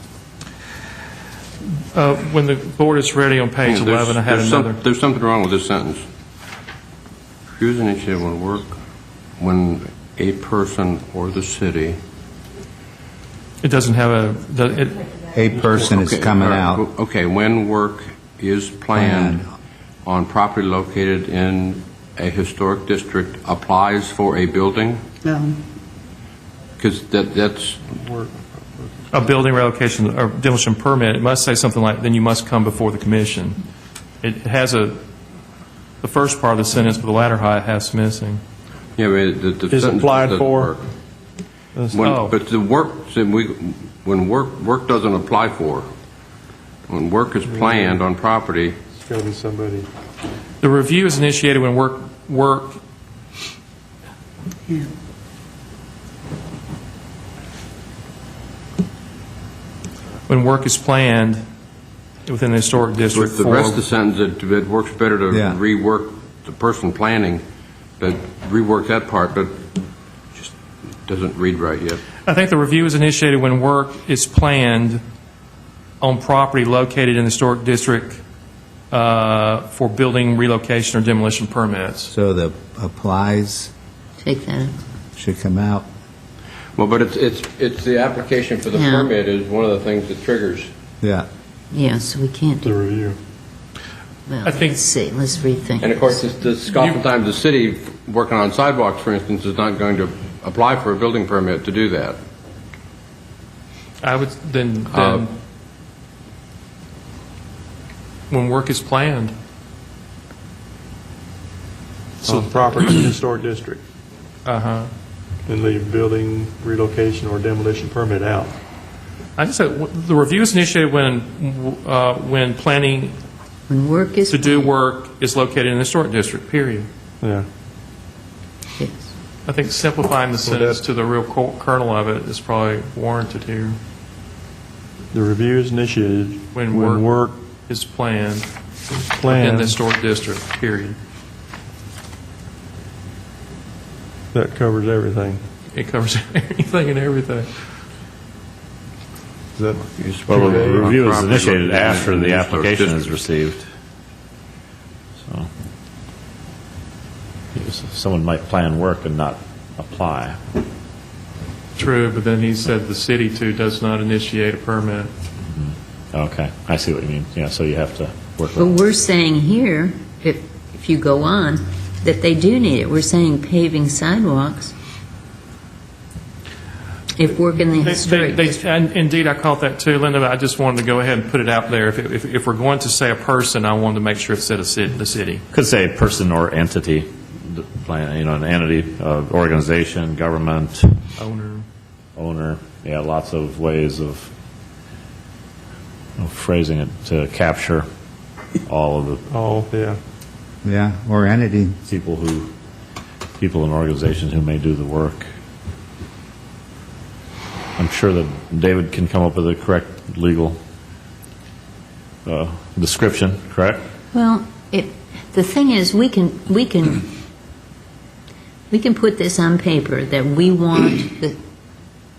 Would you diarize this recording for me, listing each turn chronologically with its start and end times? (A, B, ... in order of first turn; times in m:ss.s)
0:01.9-0:04.8 A
0:03.6-0:06.0 B
0:07.5-0:08.8 B
0:09.4-0:12.0 B
0:13.6-0:15.0 A
0:15.3-0:16.8 C
0:15.9-0:19.4 B
0:19.0-0:19.4 C
0:20.0-0:25.0 B
0:26.8-0:27.9 B
0:27.9-0:29.3 D
0:29.1-0:33.6 A
0:34.2-0:35.0 A
0:36.0-0:38.4 A
0:39.0-0:40.8 B
0:39.7-0:40.8 D
0:41.7-0:42.1 D
0:41.9-0:45.9 B
0:42.0-0:42.3 A
0:46.9-0:48.8 B
0:47.4-0:48.0 D
0:48.9-0:49.9 D
0:50.6-0:52.8 A
1:00.3-1:01.4 A
1:02.2-1:03.8 A
1:03.1-1:07.4 B
1:05.3-1:05.6 C
1:08.0-1:09.8 B
1:10.3-1:12.0 B
1:12.2-1:15.0 A
1:16.0-1:18.2 A
1:18.9-1:22.1 A
1:22.1-1:23.7 C
1:24.2-1:24.7 E
1:25.2-1:25.8 C
1:26.8-1:30.7 B
1:28.7-1:29.1 E
1:31.0-1:31.2 C
1:31.7-1:32.7 E
1:32.6-1:33.2 D
1:34.3-1:36.2 E
1:34.4-1:34.8 A
1:35.8-1:42.2 B
1:44.0-1:45.3 A
1:44.9-1:45.2 B
1:48.3-1:49.3 A
1:52.2-1:53.0 A
1:52.2-1:53.8 D
1:54.4-1:54.9 A
1:55.5-1:58.5 D
1:59.4-2:03.1 A
2:03.7-2:04.7 E
2:04.3-2:06.9 A
2:07.2-2:07.5 D
2:08.8-2:09.1 E
2:09.4-2:13.8 A
2:10.4-2:10.8 D
2:15.1-2:17.4 D
2:16.5-2:17.1 A
2:17.7-2:18.5 A
2:19.0-2:19.8 D
2:19.2-2:21.0 A
2:24.3-2:25.4 D
2:25.7-2:27.5 A
2:29.6-2:30.9 D
2:29.9-2:33.1 B
2:30.2-2:33.6 F
2:35.2-2:35.5 F
2:37.5-2:40.4 F
2:41.8-2:45.1 A
2:45.5-2:48.8 F
2:48.6-2:54.7 E
2:57.2-2:58.6 E
2:57.8-3:05.4 A
3:05.5-3:11.0 F
3:11.2-3:11.6 A
3:12.2-3:14.3 F
3:16.2-3:17.8 F
3:18.7-3:19.2 F
3:19.3-3:20.0 D
3:20.6-3:21.8 C
3:21.9-3:22.5 F
3:23.4-3:25.2 F
3:27.8-3:30.6 F
3:32.2-3:33.8 F
3:34.1-3:37.1 E
3:38.7-3:41.4 E